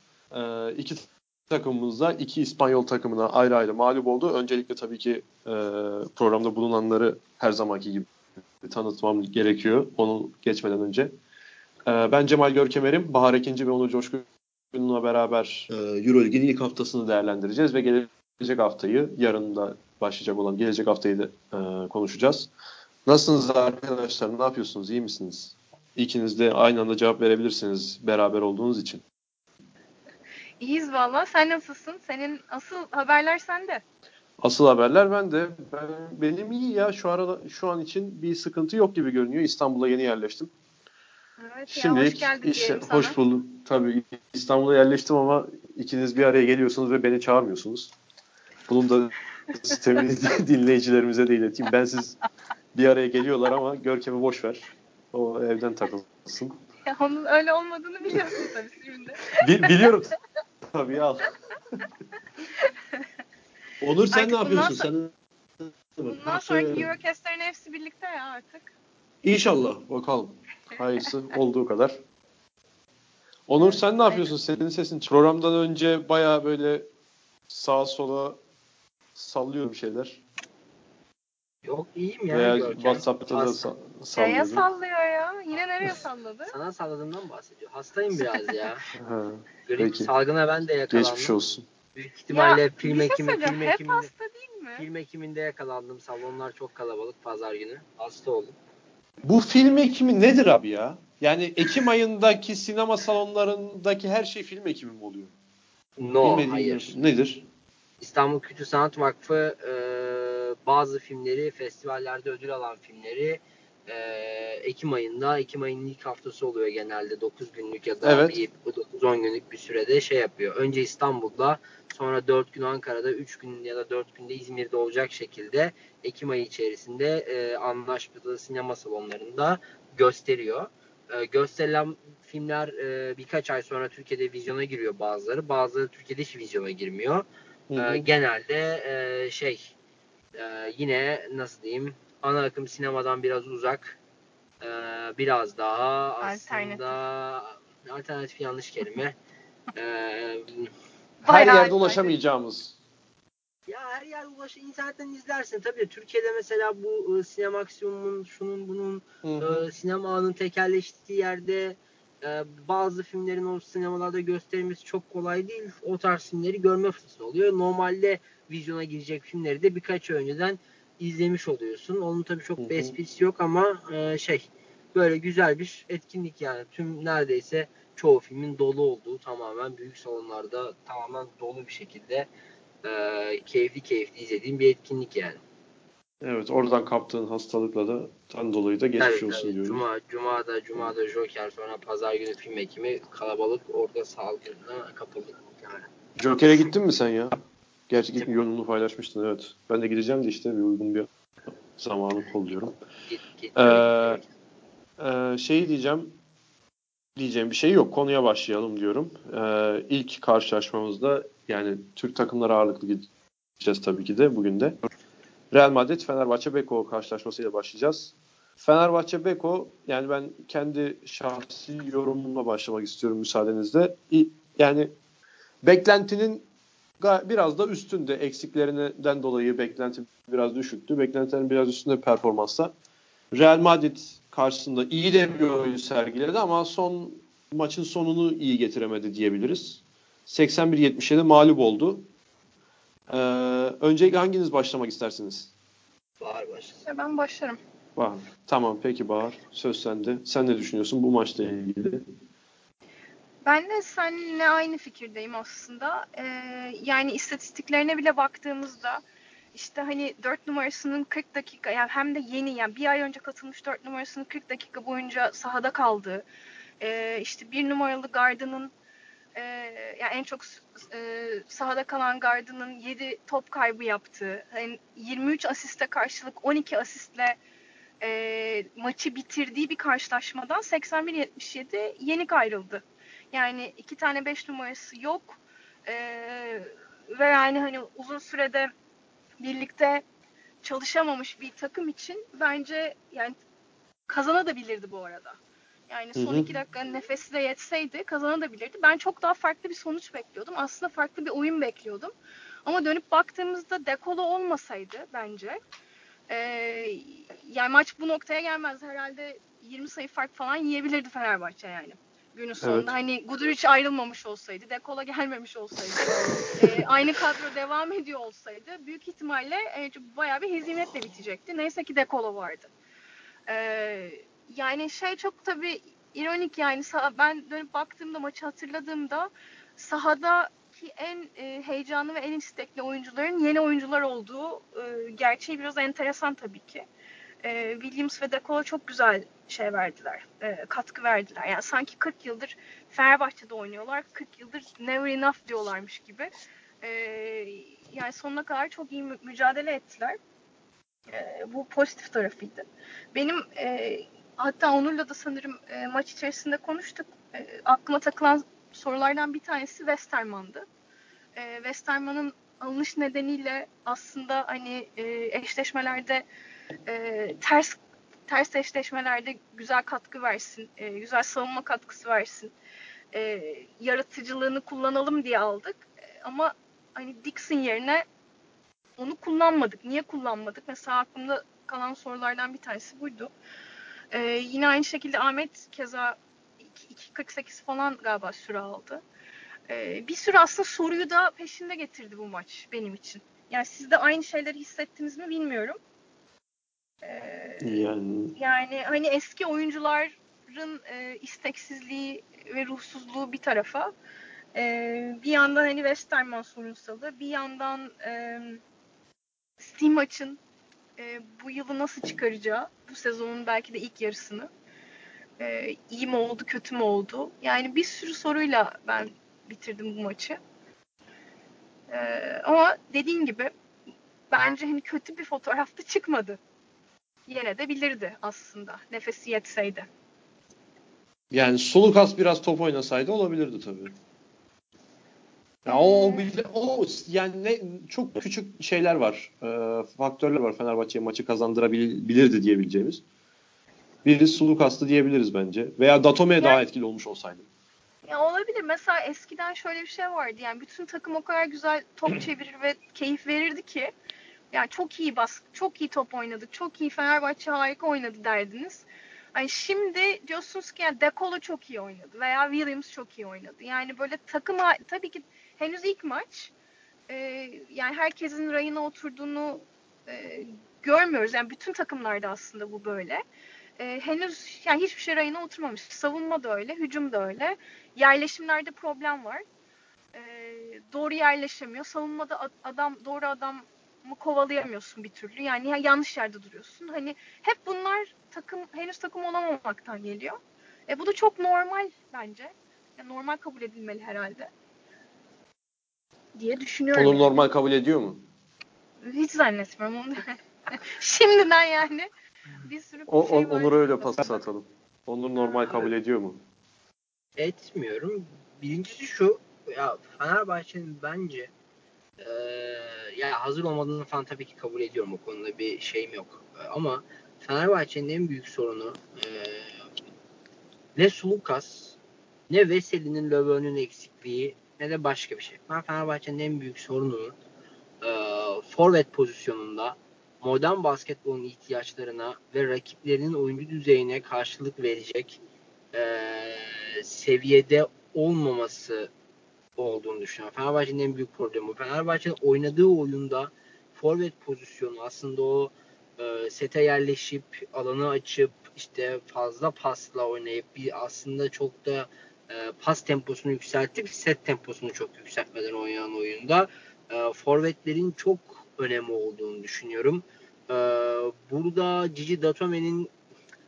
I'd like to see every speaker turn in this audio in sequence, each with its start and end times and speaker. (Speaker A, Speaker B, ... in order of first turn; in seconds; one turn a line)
Speaker A: 0.3-8.1
Speaker A: 8.6-11.1
Speaker A: 11.8-22.5
Speaker A: 23.1-29.0
Speaker B: 30.6-33.8
Speaker A: 34.4-40.5
Speaker B: 41.4-43.2
Speaker A: 41.7-47.9
Speaker A: 48.7-52.2
Speaker A: 52.7-56.6
Speaker B: 56.9-59.9
Speaker A: 59.4-60.1
Speaker A: 60.7-61.8
Speaker B: 62.6-63.0
Speaker A: 63.8-66.9
Speaker B: 64.1-64.9
Speaker B: 66.1-68.7
Speaker A: 69.2-72.0
Speaker A: 73.5-76.9
Speaker B: 73.6-74.3
Speaker A: 77.5-78.4
Speaker A: 79.1-80.2
Speaker C: 81.6-83.6
Speaker A: 82.3-84.6
Speaker B: 84.1-86.5
Speaker C: 86.5-88.8
Speaker B: 88.2-88.7
Speaker A: 89.0-90.1
Speaker C: 89.7-91.3
Speaker A: 90.9-91.7
Speaker C: 91.9-94.1
Speaker B: 92.3-94.9
Speaker C: 94.8-98.6
Speaker A: 99.2-105.3
Speaker C: 106.0-106.9
Speaker A: 106.2-107.5
Speaker C: 108.0-137.2
Speaker A: 118.0-118.4
Speaker A: 137.7-138.1
Speaker C: 137.8-139.7
Speaker C: 140.3-144.0
Speaker C: 144.6-149.1
Speaker B: 146.2-146.9
Speaker C: 149.7-150.7
Speaker B: 151.2-152.2
Speaker A: 151.2-152.8
Speaker C: 153.7-182.3
Speaker A: 159.2-159.6
Speaker A: 172.6-172.9
Speaker C: 182.8-185.4
Speaker A: 186.2-189.8
Speaker C: 189.0-195.9
Speaker A: 196.2-197.3
Speaker A: 197.9-201.1
Speaker A: 201.8-202.7
Speaker C: 203.1-204.3
Speaker A: 203.6-204.2
Speaker A: 205.0-206.1
Speaker A: 207.2-213.1
Speaker A: 213.6-214.8
Speaker A: 215.5-224.9
Speaker A: 225.6-226.4
Speaker A: 227.0-232.7
Speaker A: 233.3-242.1
Speaker A: 243.1-245.5
Speaker C: 246.2-246.8
Speaker B: 246.8-247.6
Speaker A: 247.9-252.0
Speaker B: 253.4-259.0
Speaker B: 259.5-266.2
Speaker B: 266.8-268.7
Speaker B: 269.3-277.4
Speaker B: 278.0-288.7
Speaker B: 289.4-290.0
Speaker B: 290.6-293.4
Speaker B: 294.1-295.4
Speaker B: 295.9-302.1
Speaker A: 296.1-296.5
Speaker B: 302.6-305.6
Speaker B: 306.3-322.7
Speaker A: 312.6-312.9
Speaker B: 323.5-336.9
Speaker B: 337.4-350.2
Speaker B: 351.1-360.6
Speaker B: 361.3-366.2
Speaker B: 366.9-372.5
Speaker B: 373.1-378.0
Speaker B: 379.0-383.3
Speaker B: 384.1-389.0
Speaker B: 389.7-395.8
Speaker B: 397.0-397.8
Speaker A: 397.6-398.4
Speaker B: 398.4-403.9
Speaker B: 404.5-408.6
Speaker B: 409.6-410.4
Speaker B: 411.0-414.5
Speaker B: 415.4-420.4
Speaker B: 421.9-423.5
Speaker B: 424.3-426.4
Speaker B: 427.3-429.9
Speaker A: 431.3-433.9
Speaker A: 435.6-443.0
Speaker B: 435.7-436.3
Speaker A: 444.0-447.5
Speaker B: 448.1-453.9
Speaker B: 454.5-466.5
Speaker B: 467.1-473.2
Speaker B: 473.8-479.4
Speaker B: 480.1-494.5
Speaker B: 496.4-497.4
Speaker A: 496.9-498.2
Speaker B: 499.0-502.1
Speaker B: 502.6-504.4
Speaker A: 503.1-506.4
Speaker B: 505.6-505.9
Speaker C: 507.4-511.5
Speaker C: 512.2-519.8
Speaker C: 521.0-522.0
Speaker C: 522.5-527.3
Speaker C: 528.0-535.4
Speaker C: 535.9-539.1
Speaker C: 539.8-563.1